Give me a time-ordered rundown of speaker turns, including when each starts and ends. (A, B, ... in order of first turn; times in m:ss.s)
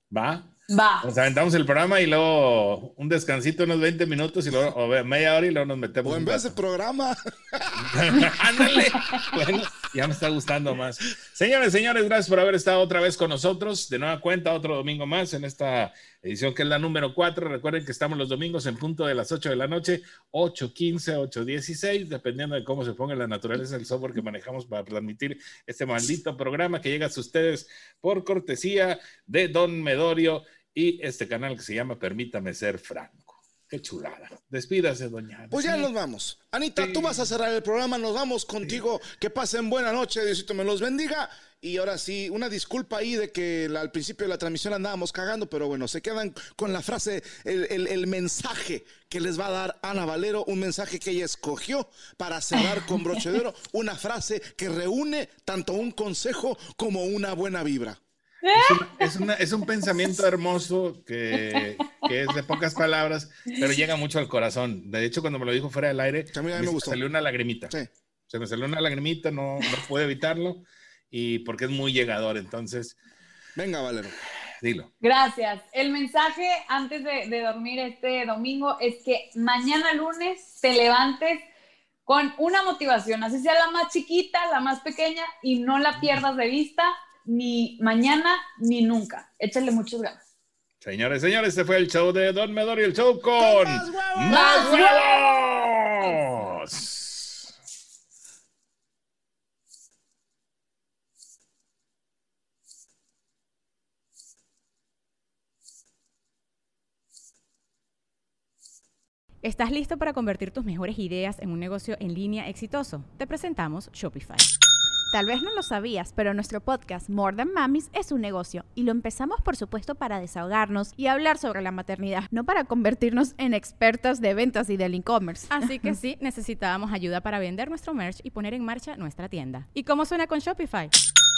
0:00.1-0:00.5 A
0:00.7-0:01.1 B
0:01.0-0:06.6 A
0:06.0-0:07.7 C
0:07.8-0:35.9 A
0:35.5-0:58.0 C
0:36.8-0:37.2 A
0:58.4-0:59.2 B
0:58.5-1:07.7 A
1:06.3-1:07.0 C
1:08.3-1:13.0 A
1:13.6-1:14.2 C
1:14.6-1:14.9 A
1:15.0-1:21.5 B
1:22.1-1:30.2 B
1:30.8-1:37.5 A
1:33.4-1:34.9 C
1:34.3-1:35.2 B
1:49.4-1:54.5 D
1:55.1-2:05.9 E
2:05.5-2:10.9 D